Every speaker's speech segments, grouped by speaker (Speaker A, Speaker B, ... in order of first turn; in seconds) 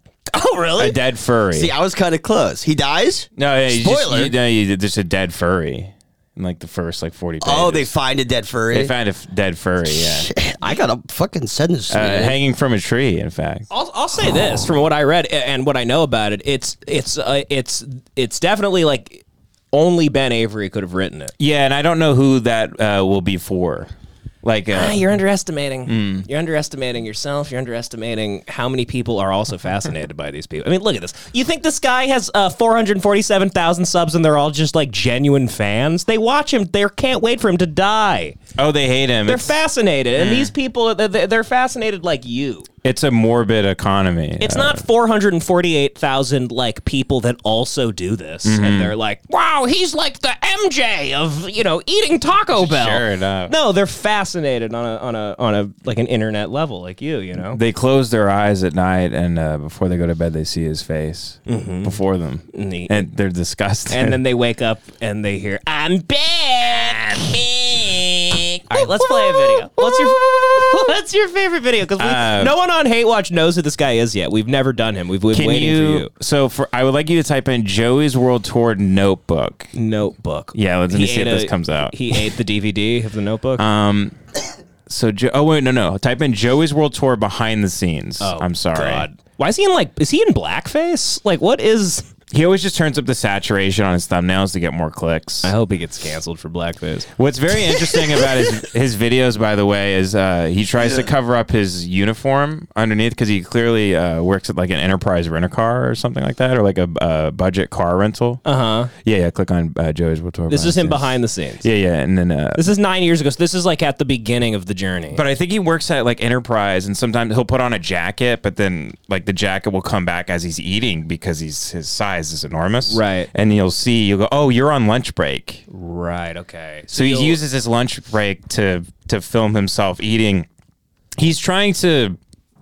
Speaker A: 0.3-1.0, 1.5-4.3, 7.4-8.9, 9.9-12.4
Speaker B: 0.8-1.7, 3.4-7.9, 8.7-10.3, 11.9-13.7, 21.4-23.9, 24.4-25.1, 25.9-26.3, 38.6-39.5, 40.1-40.5, 42.8-44.8, 48.4-48.9, 52.5-53.5, 57.5-64.2, 68.7-70.1, 72.0-72.5, 75.3-79.7, 80.5-82.2, 83.6-84.2, 84.9-89.1, 92.3-95.5, 97.2-108.4, 108.9-112.6, 115.1-125.6, 126.9-130.4, 131.2-132.2
Speaker C: 13.7-21.3, 24.7-38.4, 39.3-42.7, 44.4-57.6, 61.5-62.0, 62.5-63.0, 63.9-76.1, 79.7-83.6, 88.2-92.0, 95.4-97.1, 108.4-108.9, 110.5-111.7, 112.5-115.2, 122.9-123.3, 125.7-127.4